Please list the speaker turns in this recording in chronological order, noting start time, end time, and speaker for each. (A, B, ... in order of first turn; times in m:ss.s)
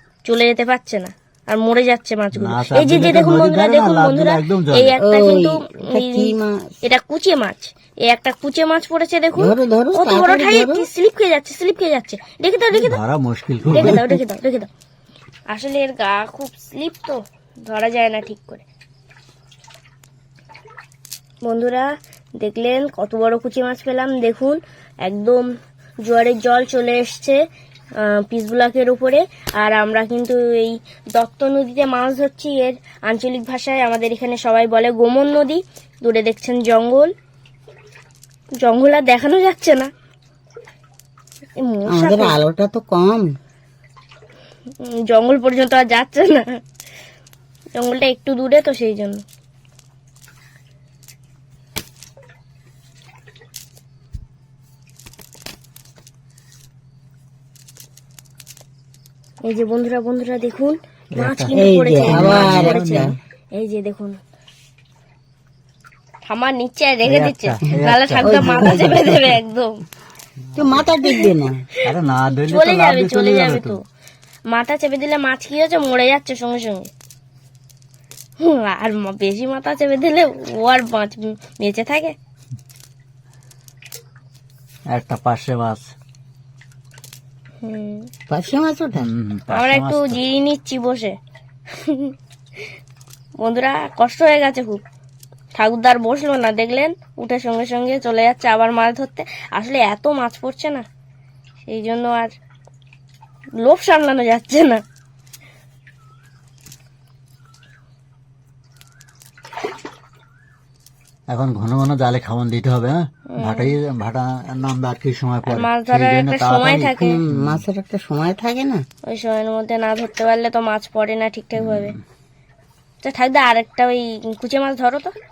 0:00.2-0:13.0 A
0:02.3-0:05.0 B
0:05.0-0:06.7 C
0:09.4-0:10.8 C
0:12.7-0:14.0 B
0:13.7-0:14.2 C
0:13.7-0:14.7 A
0:15.5-0:18.6 A
0:21.4-0:25.5 A
0:26.0-0:27.4 A
0:28.0-0:37.1 A
0:38.6-0:39.9 A
0:41.6-0:42.4 A
0:41.9-0:43.3 C
0:44.8-0:46.6 A
0:47.7-0:49.2 A
0:59.4-1:04.2 A
1:01.1-1:03.1 B
1:01.5-1:03.1 C
1:06.2-1:09.8 A
1:07.0-1:09.2 B
1:08.2-1:09.0 C
1:10.5-1:10.9 B
1:10.6-1:11.6 C
1:11.8-1:13.8 B
1:12.5-1:13.8 A
1:14.5-1:16.9 A
1:18.4-1:22.1 A
1:24.9-1:25.9 B
1:27.6-1:28.1 A
1:28.3-1:29.1 C
1:29.0-1:30.2 B
1:29.5-1:31.2 A
1:31.7-1:32.1 A
1:33.4-1:34.8 A
1:35.5-1:40.8 A
1:41.6-1:42.3 A
1:43.6-1:44.8 A
1:51.3-1:57.6 B
1:53.3-1:53.7 A
1:55.4-1:57.2 A
1:57.0-1:58.8 C
1:59.1-2:01.9 A
2:01.6-2:02.0 B
2:03.0-2:05.1 A